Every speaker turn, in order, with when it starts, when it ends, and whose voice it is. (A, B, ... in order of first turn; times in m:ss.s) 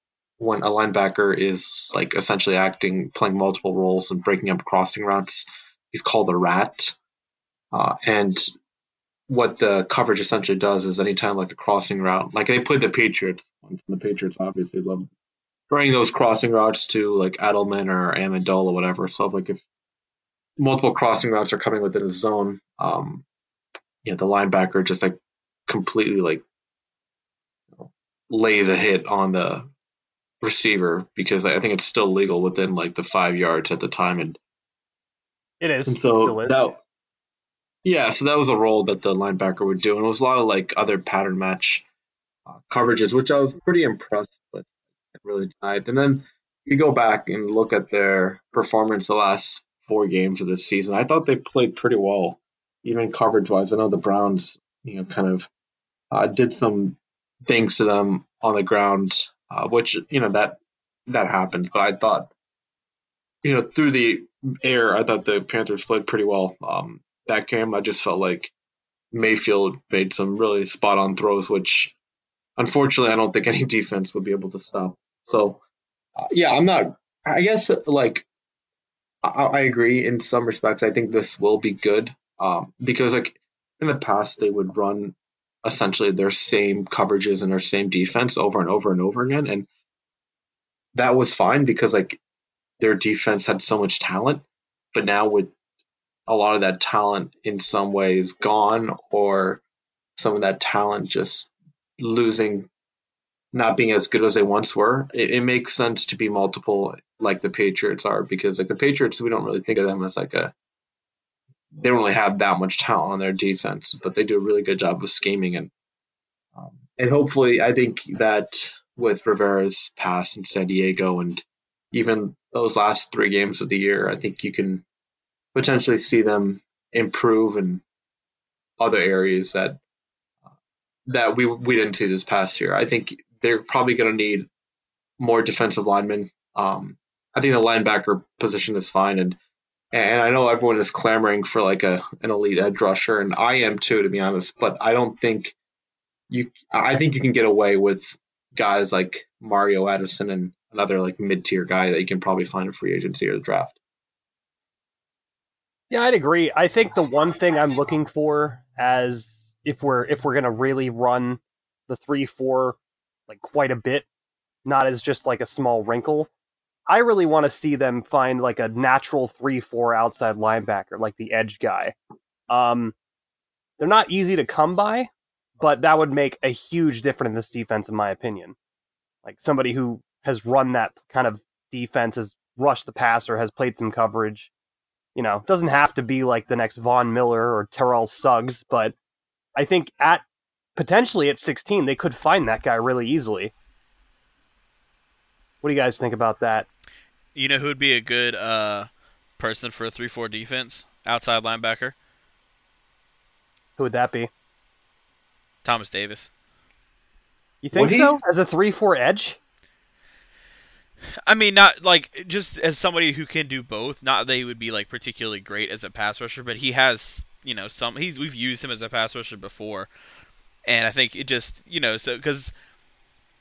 0:00.4-0:07.0 A
0:07.7-0:08.5 A
0:09.3-0:15.1 A
0:15.7-0:19.6 A
0:20.6-0:23.2 A
0:24.0-0:26.4 A
0:27.8-0:29.7 A
0:30.4-0:34.4 A
0:35.6-0:36.6 B
0:35.9-0:36.8 A
0:37.8-0:41.9 A
0:42.5-0:55.5 A
0:56.1-1:02.3 A
1:03.4-1:08.5 A
1:09.1-1:12.0 A
1:12.6-1:15.6 A
1:16.2-1:18.3 A
1:19.2-1:29.7 A
1:30.9-1:32.2 A
1:32.8-1:35.5 A
1:36.3-1:39.6 A
1:40.2-1:42.7 A
1:43.5-1:50.5 A
1:51.8-1:55.7 A
1:56.6-2:04.8 A
2:05.6-2:07.8 A
2:08.8-2:09.8 A
2:11.1-2:14.5 A
2:15.2-2:19.4 A
2:19.9-2:25.6 A
2:26.3-2:33.8 A
2:35.9-2:44.1 B
2:44.6-2:46.3 B
2:46.9-2:52.0 B
2:52.5-2:53.0 B
2:53.8-2:58.6 B
2:59.2-3:04.5 B
3:05.2-3:09.0 B
3:09.6-3:10.2 B
3:10.8-3:13.5 B
3:15.6-3:16.7 B
3:17.4-3:22.0 C
3:23.8-3:24.3 B
3:25.6-3:26.3 C
3:27.6-3:29.4 B
3:27.7-3:28.2 A
3:31.2-3:39.9 C
3:40.7-3:42.5 C